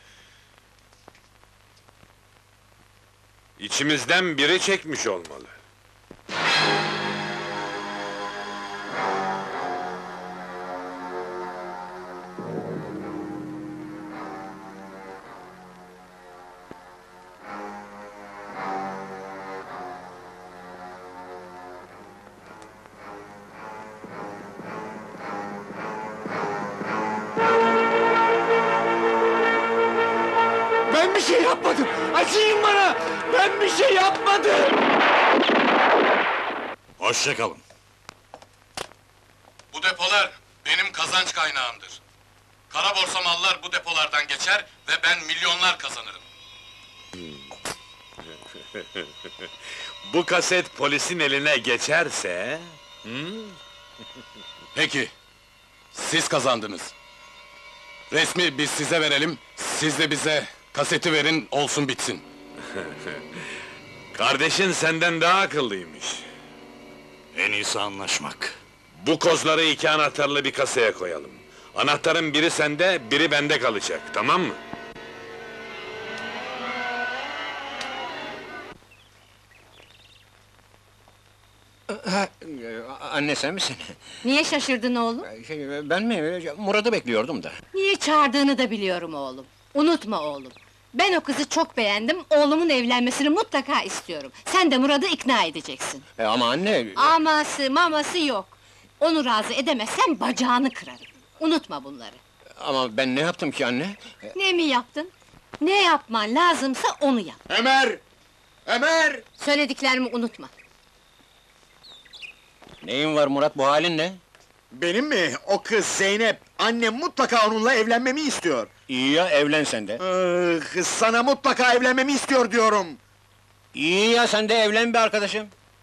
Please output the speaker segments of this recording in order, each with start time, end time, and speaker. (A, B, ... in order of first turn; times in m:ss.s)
0:03.6-0:05.6 A
0:37.0-0:37.6 B
0:39.7-0:42.0 C
0:42.7-0:46.2 C
0:50.0-0:53.6 A
0:54.7-0:55.1 C
0:55.9-0:56.9 C
0:58.1-1:02.2 C
1:04.1-1:06.2 A
1:07.3-1:08.6 B
1:09.0-1:14.6 A
1:21.9-1:23.9 D
1:24.2-1:25.3 E
1:25.2-1:27.6 D
1:27.7-1:36.0 E
1:36.2-1:37.1 D
1:37.0-1:42.2 E
1:42.6-1:44.1 D
1:44.3-1:47.4 E
1:47.5-1:48.0 F
1:48.7-1:49.2 F
1:49.4-1:50.5 E
1:52.8-1:54.2 D
1:54.7-1:58.7 F
1:58.9-2:00.0 D
2:00.0-2:03.0 F
2:03.7-2:05.5 D